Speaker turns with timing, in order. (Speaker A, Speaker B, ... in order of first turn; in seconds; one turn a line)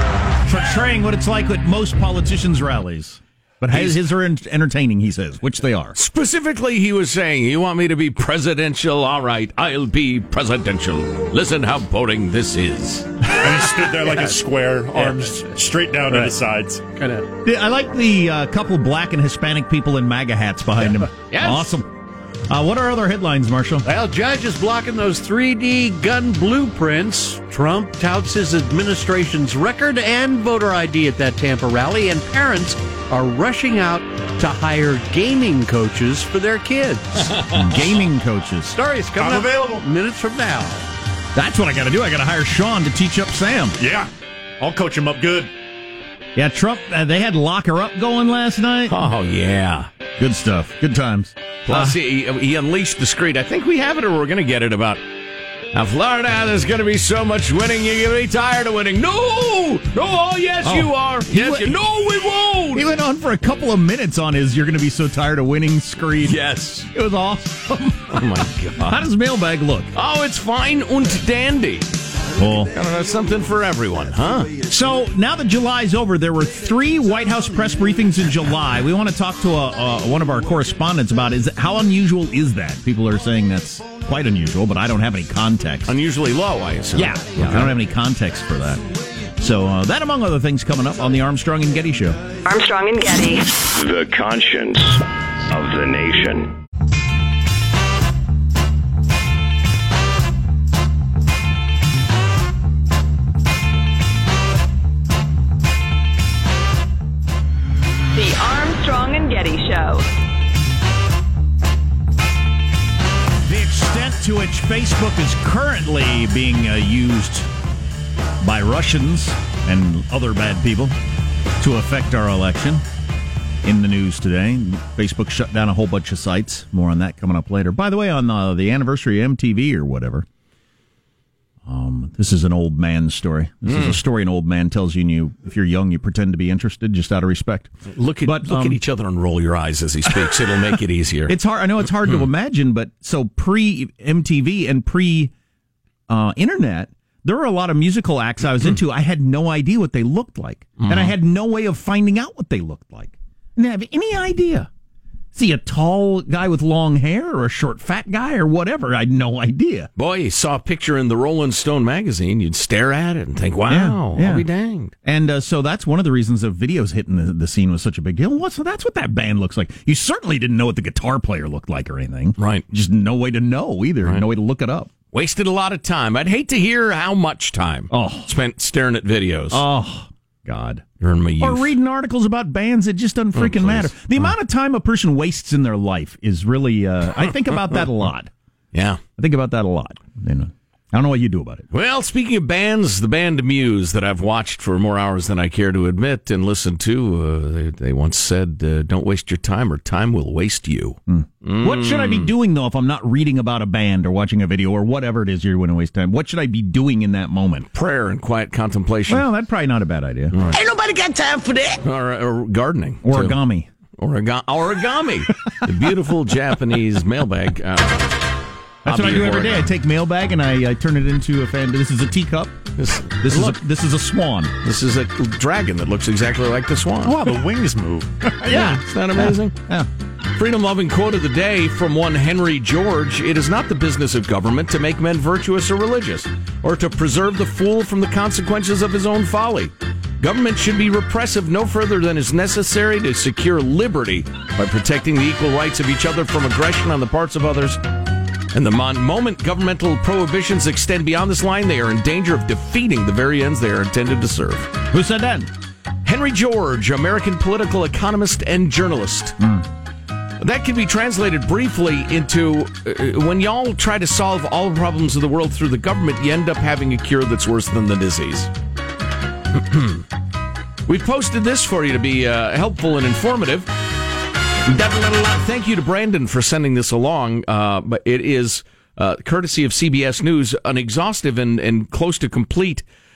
Speaker A: 0.5-6.0
Speaker B: 3.7-4.0
Speaker B: 6.0-13.1
Speaker C: 13.3-16.8
Speaker D: 14.1-14.4
Speaker D: 14.9-15.4
Speaker D: 16.1-16.4
Speaker D: 17.0-17.3
Speaker A: 17.4-21.9
Speaker B: 21.3-21.8
Speaker A: 22.5-23.9
Speaker D: 23.9-37.3
Speaker A: 37.5-38.8
Speaker D: 38.7-40.9
Speaker C: 39.2-39.8
Speaker A: 41.4-43.8
Speaker C: 43.8-45.5
Speaker A: 46.4-49.0
Speaker B: 48.9-49.9
Speaker A: 50.2-52.0
Speaker B: 51.7-55.0
Speaker B: 55.7-62.9
Speaker A: 60.6-61.8
Speaker A: 62.7-66.4
Speaker B: 66.2-66.9
Speaker A: 66.9-69.9
Speaker B: 68.1-69.0
Speaker B: 69.9-71.9
Speaker A: 72.4-72.7
Speaker B: 72.7-74.5
Speaker A: 74.6-86.0
Speaker B: 85.9-87.8
Speaker A: 87.0-88.8
Speaker A: 89.4-92.2
Speaker E: 92.5-93.5
Speaker F: 93.7-96.6
Speaker E: 108.1-110.0
Speaker A: 113.4-117.5
Speaker A: 118.4-121.0
Speaker A: 121.6-122.8
Speaker A: 123.6-130.3
Speaker A: 131.7-138.8
Speaker B: 133.7-134.0
Speaker B: 137.9-141.3
Speaker A: 141.3-145.3
Speaker A: 146.1-154.7
Speaker B: 150.8-151.2
Speaker A: 155.3-159.9
Speaker B: 160.0-164.9
Speaker A: 163.7-164.5
Speaker A: 165.0-174.9
Speaker B: 172.4-172.7
Speaker B: 175.1-179.6
Speaker A: 177.9-178.3
Speaker A: 179.5-180.8
Speaker B: 181.0-181.7
Speaker A: 181.4-188.3
Speaker B: 183.4-184.3
Speaker B: 188.7-189.0
Speaker A: 189.2-191.7
Speaker B: 191.7-202.3
Speaker A: 201.1-207.7
Speaker B: 207.7-209.3
Speaker A: 209.1-210.8
Speaker B: 210.3-210.7
Speaker B: 211.8-213.4
Speaker A: 213.0-213.7
Speaker B: 214.0-218.3
Speaker A: 218.8-222.7
Speaker B: 218.9-219.7
Speaker B: 222.8-223.6
Speaker A: 223.2-224.5
Speaker B: 224.6-227.2
Speaker C: 227.0-228.3
Speaker A: 228.4-229.9
Speaker B: 228.4-229.6
Speaker B: 230.3-247.8
Speaker B: 248.5-254.7
Speaker A: 254.9-255.5
Speaker B: 256.1-259.4
Speaker A: 259.4-259.7
Speaker B: 260.4-268.5
Speaker B: 269.5-270.0
Speaker B: 270.9-273.7
Speaker B: 274.7-282.9